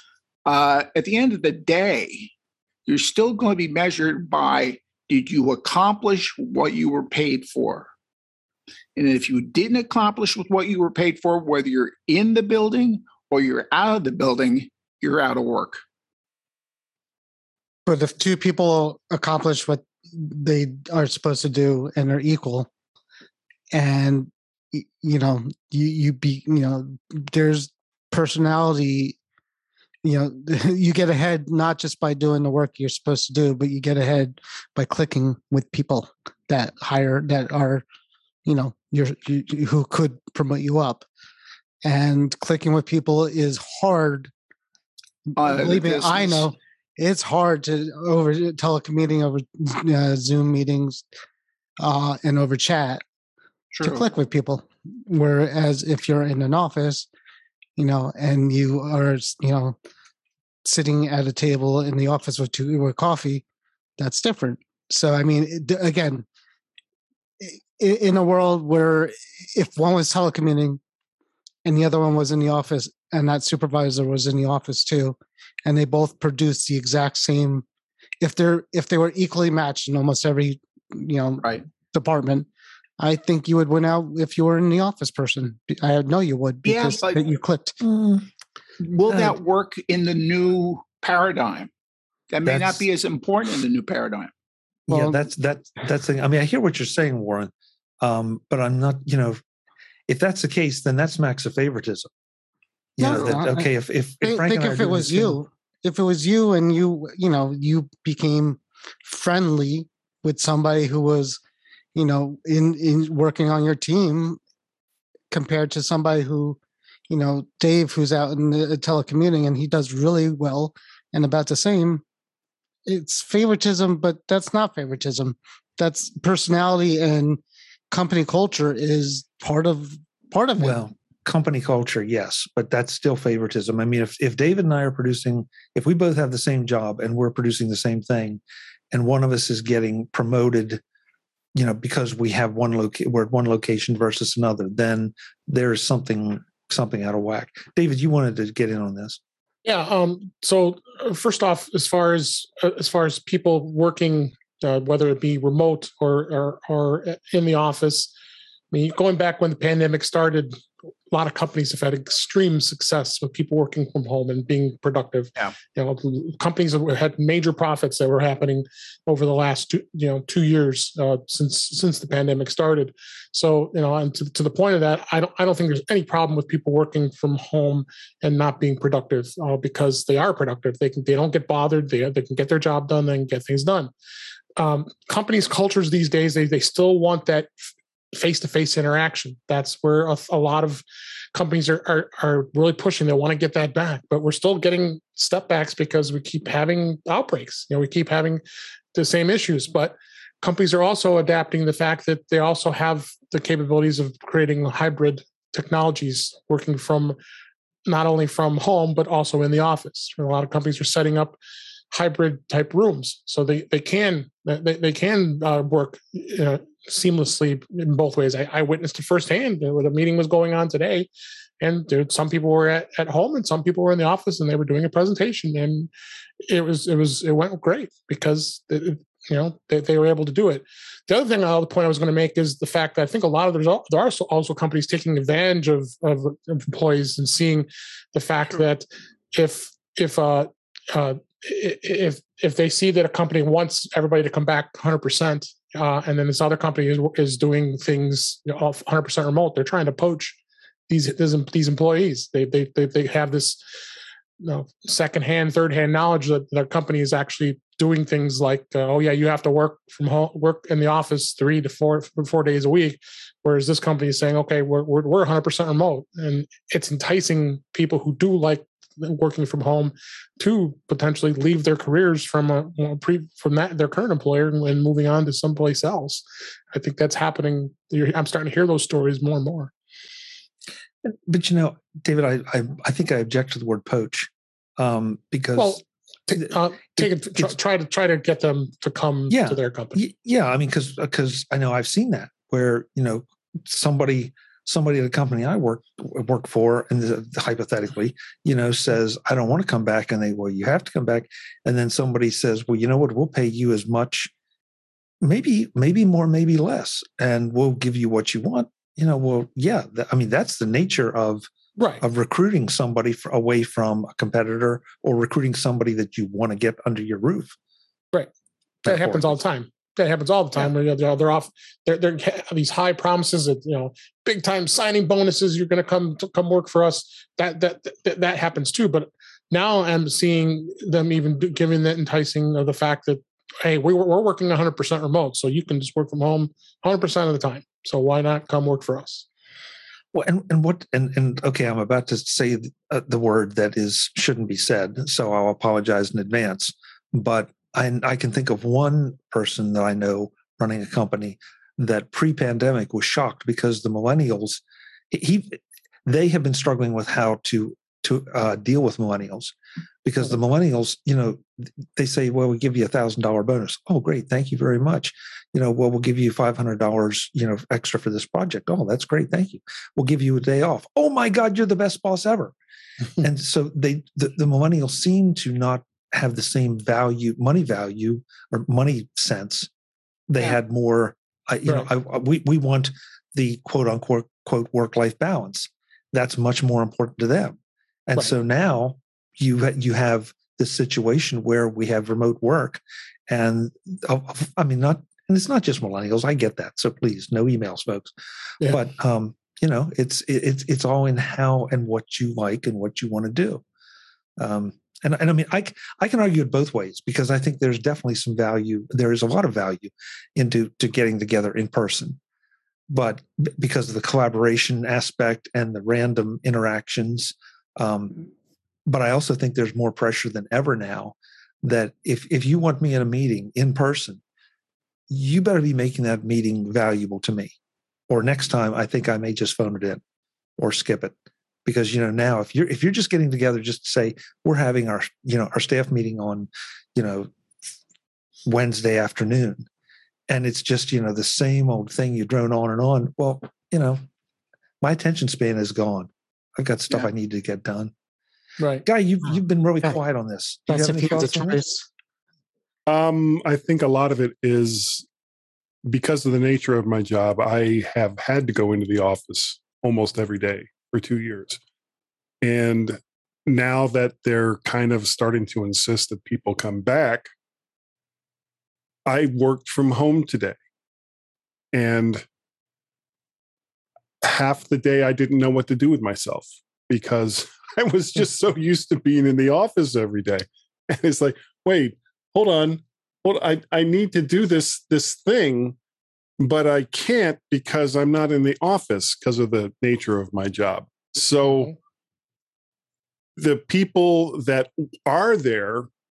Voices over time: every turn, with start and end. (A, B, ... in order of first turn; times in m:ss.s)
0:00.4-0:02.3 A
0:02.9-0:07.9 A
0:09.0-0:15.8 A
0:17.8-0:22.7 B
0:23.7-0:29.2 B
0:30.0-0:37.8 B
0:38.4-0:41.0 B
0:41.8-0:44.3 B
0:45.3-0:51.0 B
0:45.4-0:46.5 A
0:51.8-0:53.0 B
0:53.7-0:54.0 A
0:53.8-0:57.1 B
0:57.8-0:59.8 B
1:00.6-1:03.4 B
1:04.0-1:06.2 B
1:07.4-1:10.8 B
1:11.6-1:17.6 B
1:18.2-1:22.5 B
1:23.0-1:27.8 B
1:26.6-1:27.2 A
1:27.8-1:28.2 C
1:28.8-1:31.7 A
1:29.1-1:29.4 C
1:32.3-1:34.3 A
1:32.4-1:32.8 C
1:34.9-1:35.2 B
1:34.9-1:39.4 C
1:40.1-1:42.1 C
1:43.0-1:45.4 C
1:43.0-1:43.7 B
1:44.2-1:51.4 B
1:51.9-1:54.4 B
1:55.3-1:56.6 B
1:57.1-2:02.0 B
2:02.8-2:10.8 B
2:10.6-2:18.4 C
2:18.9-2:20.8 C
2:21.6-2:29.2 C
2:29.6-2:38.1 D
2:38.7-2:40.6 D
2:41.1-3:03.9 D
3:04.6-3:07.5 D
3:08.1-3:10.8 D
3:11.3-3:18.4 D
3:18.9-3:27.2 D
3:27.8-3:31.4 D
3:31.9-3:41.1 D
3:41.6-3:45.9 D
3:46.4-4:10.4 D
4:10.9-4:13.6 D
4:14.4-4:39.7 D
4:41.0-4:45.8 C
4:45.6-4:50.0 D
4:46.3-4:47.6 C
4:49.3-5:04.3 C
5:05.2-5:11.5 C
5:12.0-5:17.5 C
5:18.8-5:19.4 C
5:18.8-5:39.2 D
5:40.1-6:12.5 C
6:13.2-6:19.7 C
6:20.3-6:43.6 C
6:44.4-6:52.2 C
6:52.9-6:58.3 C
6:58.9-7:04.2 C
7:05.1-7:07.5 C
7:08.1-7:10.0 C
7:10.6-7:11.1 C
7:11.6-7:17.3 C
7:18.5-7:19.6 C
7:20.3-7:24.0 C
7:24.8-7:27.9 C
7:28.6-7:28.8 D
7:28.8-7:31.6 C
7:30.7-7:31.8 B
7:32.9-7:35.0 E
7:35.8-7:41.6 E
7:42.4-7:47.3 E
7:49.0-7:50.6 E
7:51.7-7:52.2 E
7:54.2-8:05.8 E
8:06.4-8:11.7 E
8:11.4-8:11.7 D
8:13.4-8:15.9 E